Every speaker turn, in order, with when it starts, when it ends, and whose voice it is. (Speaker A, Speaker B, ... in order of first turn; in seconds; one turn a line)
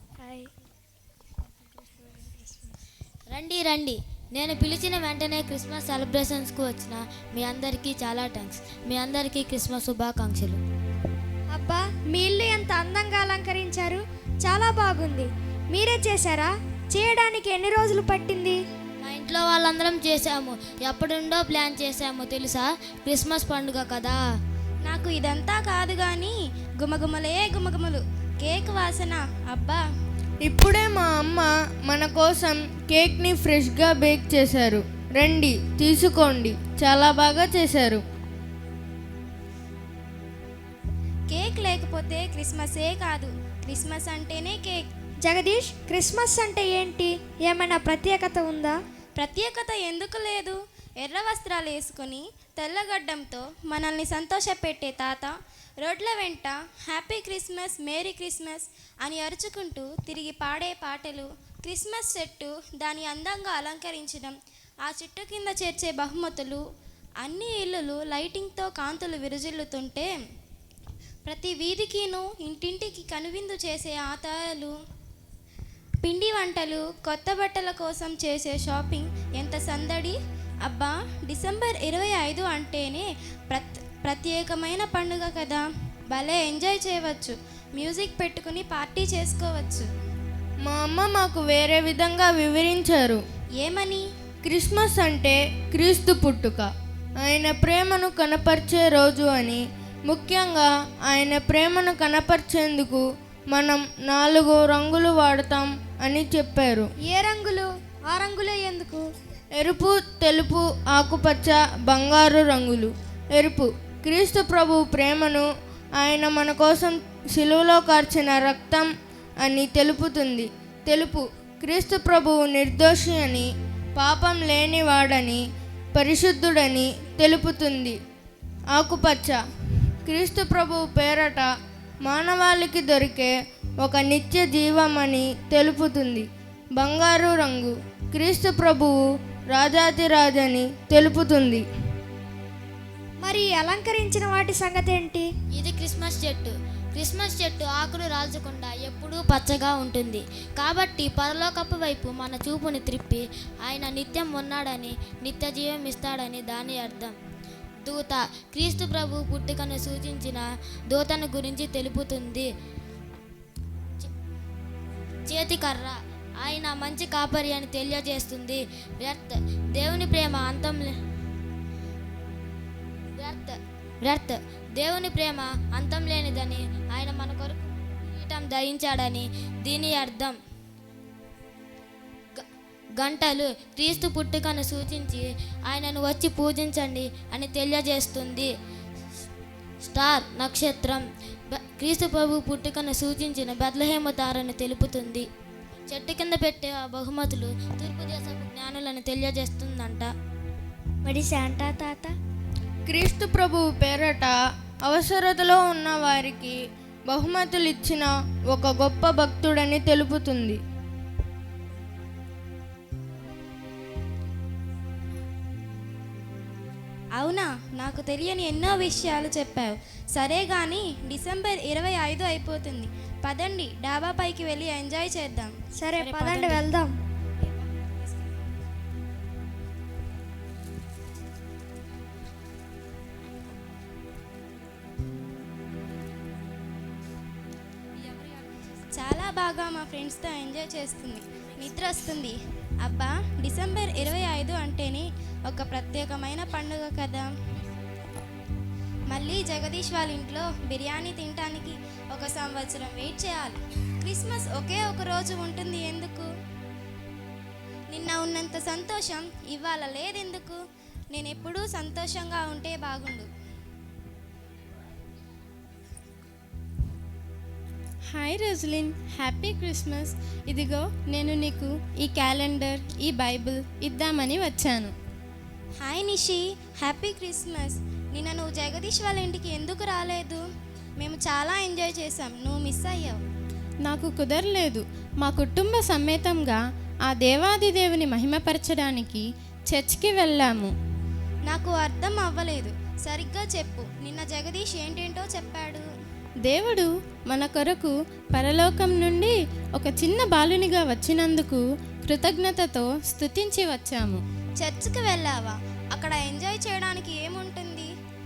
Speaker A: 0.2-0.5
Speaker B: 3.3-10.6
Speaker A: 11.5-18.6
Speaker B: 19.0-24.2
Speaker C: 24.8-29.8
Speaker D: 30.4-38.0
Speaker C: 41.3-44.8
Speaker A: 45.2-48.8
Speaker C: 49.2-66.6
Speaker C: 67.2-70.1
Speaker C: 71.2-74.7
Speaker C: 76.0-89.9
Speaker D: 90.7-93.2
Speaker C: 93.6-94.0
Speaker D: 94.5-96.7
Speaker D: 97.2-106.9
Speaker A: 107.1-109.1
Speaker D: 109.6-115.5
Speaker D: 116.0-118.9
Speaker D: 119.4-125.4
Speaker D: 126.0-128.0
Speaker D: 128.7-129.4
Speaker D: 130.1-131.5
Speaker D: 132.1-133.3
Speaker D: 133.8-139.0
Speaker D: 139.5-141.7
Speaker A: 143.2-145.3
Speaker B: 145.6-157.2
Speaker B: 157.9-162.5
Speaker B: 165.3-170.9
Speaker B: 173.2-180.4
Speaker B: 183.0-188.5
Speaker B: 189.9-195.3
Speaker B: 195.9-200.1
Speaker A: 201.1-202.1
Speaker D: 202.9-204.3
Speaker D: 204.9-206.6
Speaker D: 207.1-210.6
Speaker C: 217.2-225.6
Speaker A: 225.8-226.9
Speaker C: 226.2-226.6
Speaker C: 239.0-247.3
Speaker C: 249.1-256.3
Speaker C: 257.9-260.6
Speaker C: 261.1-263.3
Speaker E: 268.1-274.9
Speaker C: 275.8-280.4
Speaker C: 281.0-283.2
Speaker E: 283.9-290.7
Speaker C: 291.5-295.9
Speaker E: 296.5-304.2
Speaker C: 304.6-307.9